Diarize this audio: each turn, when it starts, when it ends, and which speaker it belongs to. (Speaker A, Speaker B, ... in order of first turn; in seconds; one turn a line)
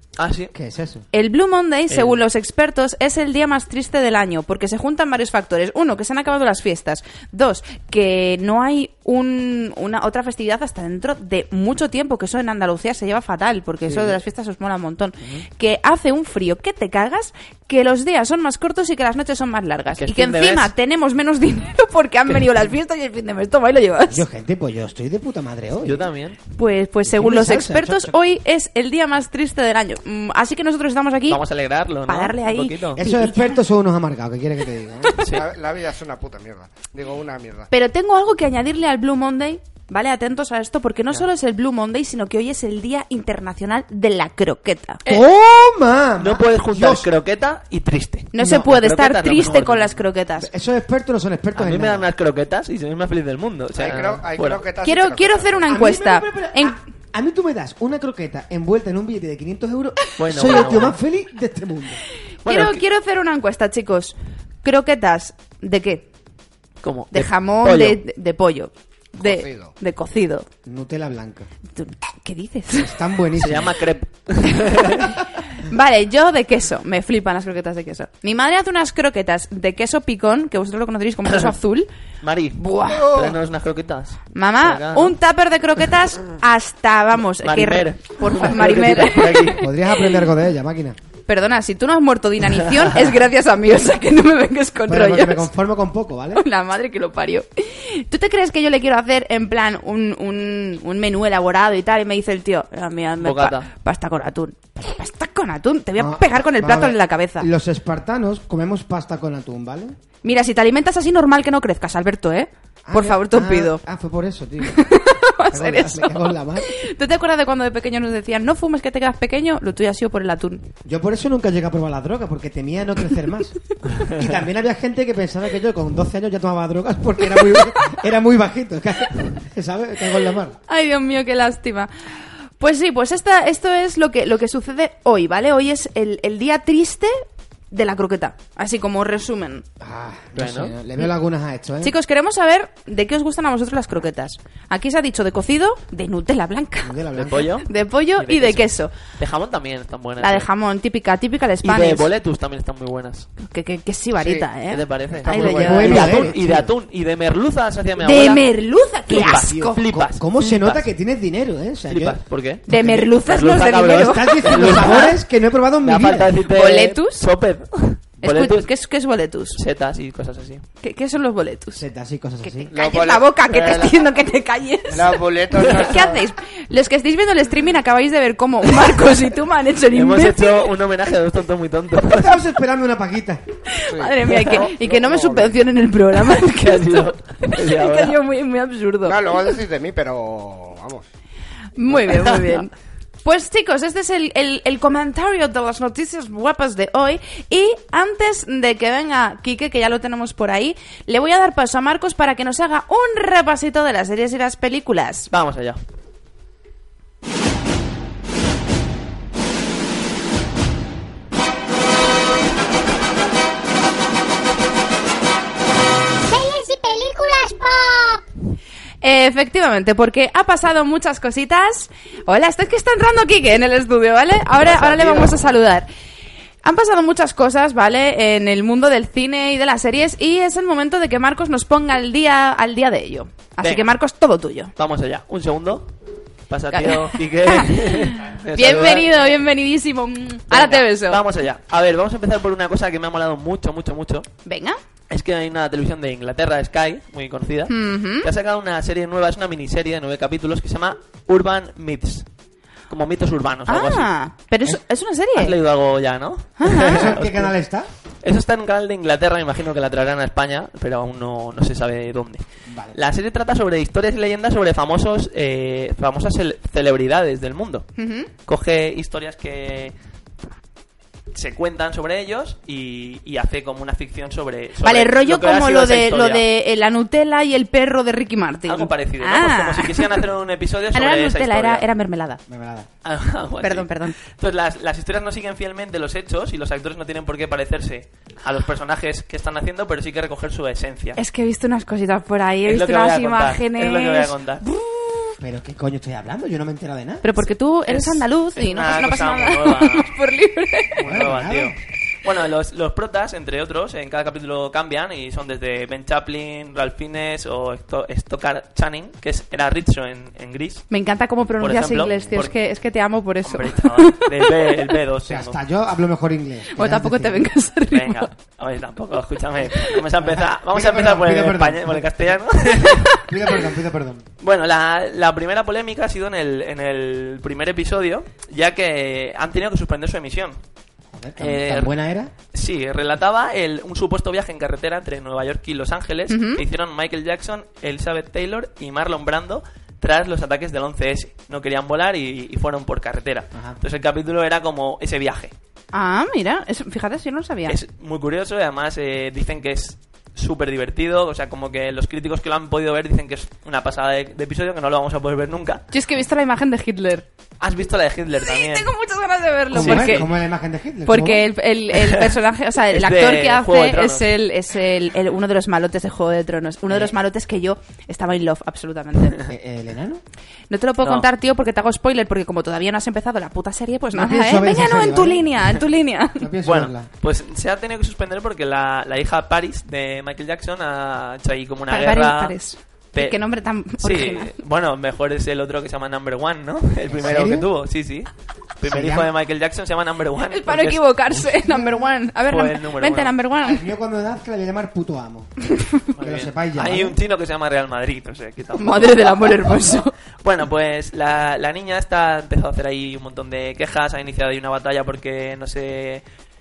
Speaker A: 0.2-0.5
Speaker B: 0.5-1.0
Speaker C: 1.1-24.2
Speaker A: 1.9-2.2
Speaker A: 20.0-20.7
Speaker B: 24.1-26.1
Speaker A: 25.8-26.4
Speaker C: 26.5-31.4
Speaker B: 27.1-28.1
Speaker A: 31.3-33.0
Speaker C: 32.1-33.6
Speaker B: 33.0-35.2
Speaker D: 35.2-37.7
Speaker C: 37.7-45.0
Speaker B: 45.0-47.1
Speaker A: 46.2-50.0
Speaker C: 48.3-50.5
Speaker B: 50.4-52.1
Speaker A: 51.5-54.6
Speaker D: 53.7-55.8
Speaker C: 54.8-56.8
Speaker B: 55.7-62.0
Speaker A: 60.2-61.0
Speaker A: 62.4-62.8
Speaker C: 62.5-66.0
Speaker A: 66.8-68.0
Speaker C: 67.1-70.5
Speaker D: 69.2-69.7
Speaker B: 70.6-71.5
Speaker C: 71.7-72.9
Speaker B: 72.7-73.8
Speaker A: 73.3-75.2
Speaker C: 74.5-81.9
Speaker A: 81.2-81.5
Speaker A: 82.2-85.1
Speaker C: 82.6-83.1
Speaker D: 82.9-83.3
Speaker C: 84.3-90.0
Speaker A: 87.4-89.6
Speaker B: 89.5-91.0
Speaker C: 91.3-95.5
Speaker B: 94.9-96.4
Speaker C: 96.3-107.5
Speaker A: 103.2-103.7
Speaker B: 106.0-109.9
Speaker C: 110.2-113.8
Speaker B: 112.8-115.0
Speaker C: 114.7-120.6
Speaker B: 115.5-116.7
Speaker B: 120.8-130.6
Speaker C: 123.7-124.1
Speaker A: 124.0-124.2
Speaker C: 127.4-127.8
Speaker C: 130.7-131.9
Speaker C: 132.6-139.6
Speaker B: 139.8-141.9
Speaker A: 140.3-140.8
Speaker C: 141.8-147.0
Speaker B: 146.8-147.5
Speaker A: 147.1-150.5
Speaker C: 147.6-148.9
Speaker C: 150.2-152.1
Speaker A: 151.6-153.3
Speaker C: 153.4-156.3
Speaker D: 154.2-154.5
Speaker A: 154.7-158.4
Speaker D: 155.1-156.1
Speaker B: 155.3-156.7
Speaker C: 158.0-159.8
Speaker A: 159.1-160.8
Speaker B: 159.1-163.1
Speaker A: 161.9-162.7
Speaker C: 162.7-165.1
Speaker A: 163.2-165.2
Speaker B: 163.6-166.4
Speaker A: 165.8-168.7
Speaker C: 166.5-167.2
Speaker C: 168.2-169.6
Speaker A: 169.6-170.6
Speaker C: 170.8-171.8
Speaker B: 171.7-172.7
Speaker C: 172.4-180.6
Speaker D: 172.7-174.0
Speaker D: 174.9-176.2
Speaker A: 179.9-182.4
Speaker B: 182.1-183.4
Speaker C: 183.7-189.5
Speaker D: 183.9-185.6
Speaker A: 186.2-188.2
Speaker D: 189.0-191.1
Speaker C: 191.8-205.3
Speaker A: 205.3-205.8
Speaker E: 216.2-218.2
Speaker C: 219.0-225.9
Speaker A: 224.6-225.6
Speaker C: 226.6-234.7
Speaker A: 233.6-233.9
Speaker A: 234.8-235.9
Speaker A: 236.5-239.2
Speaker C: 236.7-241.2
Speaker A: 240.5-244.3
Speaker C: 244.4-244.8
Speaker A: 245.1-252.2
Speaker C: 247.7-248.3
Speaker A: 252.9-254.1
Speaker C: 253.7-255.5
Speaker A: 255.3-257.5
Speaker C: 256.6-257.1
Speaker B: 256.8-257.9
Speaker A: 258.2-262.4
Speaker B: 262.7-263.0
Speaker A: 262.9-267.9
Speaker C: 268.0-268.3
Speaker A: 268.5-269.9
Speaker A: 271.3-276.4
Speaker C: 274.8-280.2
Speaker A: 278.7-281.8
Speaker C: 280.9-282.4
Speaker B: 282.5-282.9
Speaker A: 283.0-291.2
Speaker C: 283.6-284.1
Speaker C: 291.1-295.4
Speaker A: 292.7-294.6
Speaker B: 295.4-297.2
Speaker C: 297.2-301.0
Speaker A: 297.9-300.1
Speaker A: 300.9-310.9
Speaker B: 301.0-301.8
Speaker C: 310.9-314.9
Speaker A: 311.6-312.5
Speaker B: 312.1-312.4
Speaker A: 313.4-315.6
Speaker B: 315.2-317.5
Speaker C: 316.7-318.3
Speaker A: 317.9-323.1
Speaker B: 320.2-322.4
Speaker C: 322.9-323.3
Speaker B: 323.1-324.2
Speaker A: 324.4-330.6
Speaker B: 331.1-332.3
Speaker A: 331.4-331.9
Speaker A: 332.5-345.5
Speaker C: 336.3-336.6
Speaker C: 345.9-347.8
Speaker A: 347.7-355.8
Speaker C: 355.9-357.2
Speaker A: 357.6-358.9
Speaker C: 358.4-360.2
Speaker A: 359.7-360.3
Speaker B: 359.7-361.4
Speaker C: 361.1-369.4
Speaker A: 361.9-362.3
Speaker A: 362.9-364.3
Speaker B: 369.4-370.2
Speaker C: 370.7-376.4
Speaker B: 374.1-375.6
Speaker B: 376.4-377.1
Speaker A: 376.6-382.5
Speaker C: 381.9-384.5
Speaker A: 384.0-391.4
Speaker B: 387.1-387.7
Speaker B: 388.9-389.3
Speaker C: 390.5-393.8
Speaker A: 392.5-393.3
Speaker B: 393.6-395.5
Speaker A: 396.1-399.9
Speaker B: 396.2-397.1
Speaker C: 398.8-400.1
Speaker A: 400.4-406.2